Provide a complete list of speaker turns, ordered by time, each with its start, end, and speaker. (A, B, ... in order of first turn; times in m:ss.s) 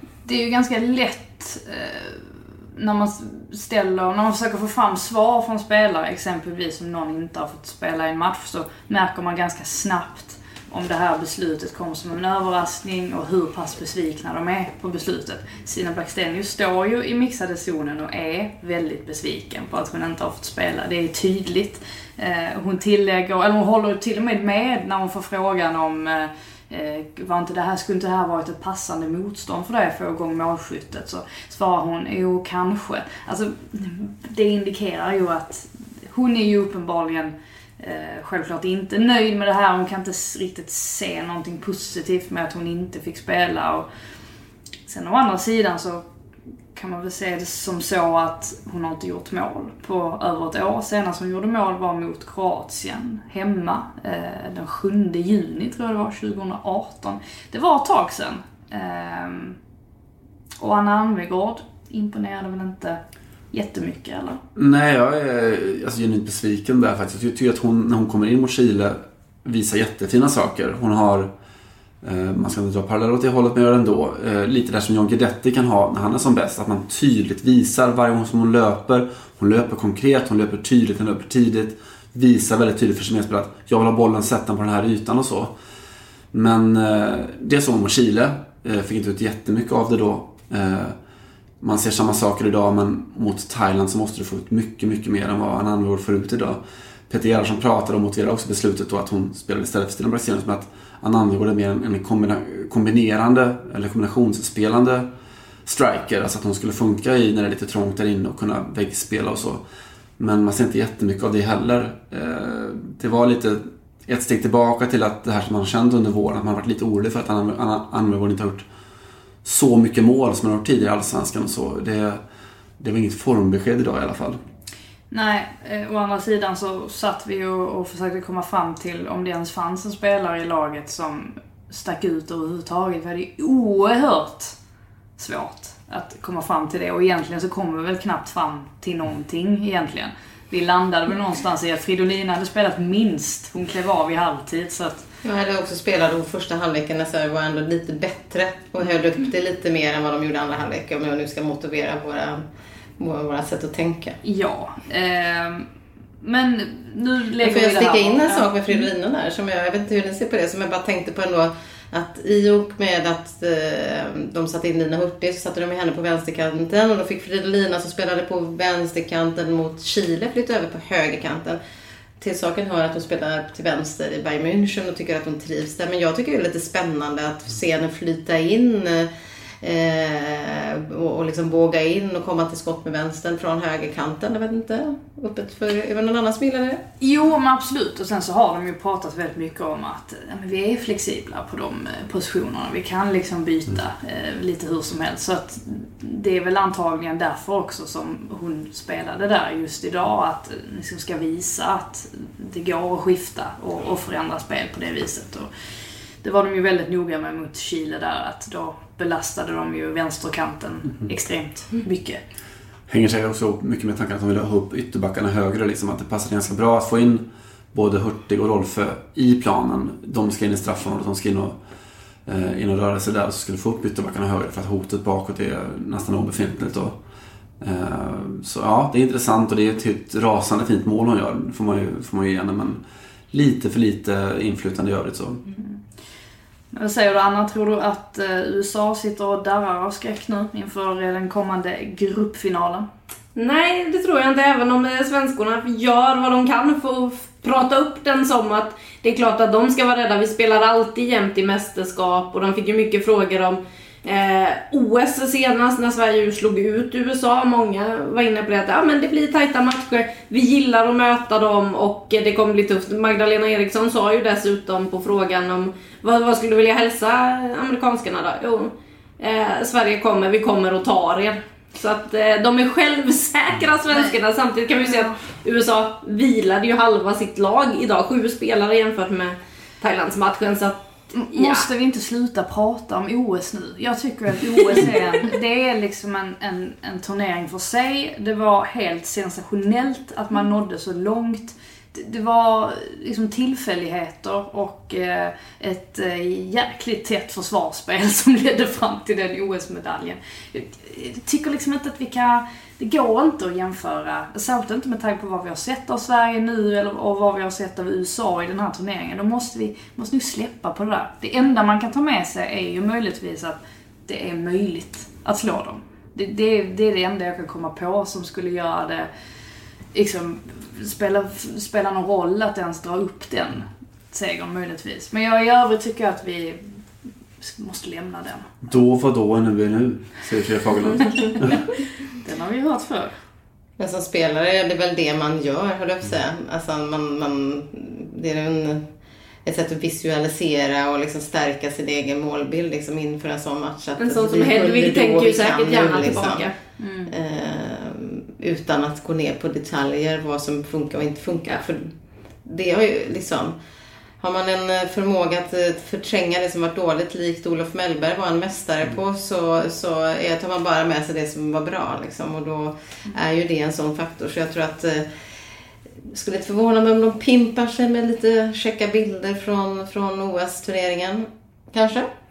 0:00.2-0:43.9 A
0:44.9-0:46.1 A
0:46.7-0:59.6 A
1:00.6-1:03.0 A
1:03.5-1:04.4 A
1:04.6-1:11.3 B
1:12.0-1:25.5 B
1:26.3-1:31.0 B
1:31.6-1:45.1 B
1:45.7-1:49.6 B
1:50.2-1:58.7 B
1:59.4-2:02.2 B
2:02.8-2:04.4 B
2:05.1-2:14.6 A
2:15.2-2:25.1 A
2:25.2-2:32.4 C
2:33.0-2:34.2 C
2:34.2-2:35.7 A
2:36.2-2:38.5 A
2:37.4-2:51.6 C
2:52.2-2:59.1 C
2:59.6-3:06.8 C
3:07.0-3:25.5 A
3:26.2-3:32.2 A
3:32.9-3:41.6 B
3:42.3-3:47.0 B
3:47.6-3:55.4 B
3:55.6-3:55.8 A
3:56.7-4:02.9 A
4:03.4-4:41.7 D
4:41.2-5:19.1 A
5:19.9-5:26.8 A
5:27.4-5:28.5 A
5:28.6-5:31.6 B
5:32.1-5:33.2 A
5:33.8-5:38.9 C
5:39.4-5:46.5 C
5:44.0-5:46.5 D
5:46.8-5:47.1 A
5:47.1-5:51.9 C
5:52.4-5:53.6 C
5:54.2-6:05.1 C
6:06.1-6:12.1 C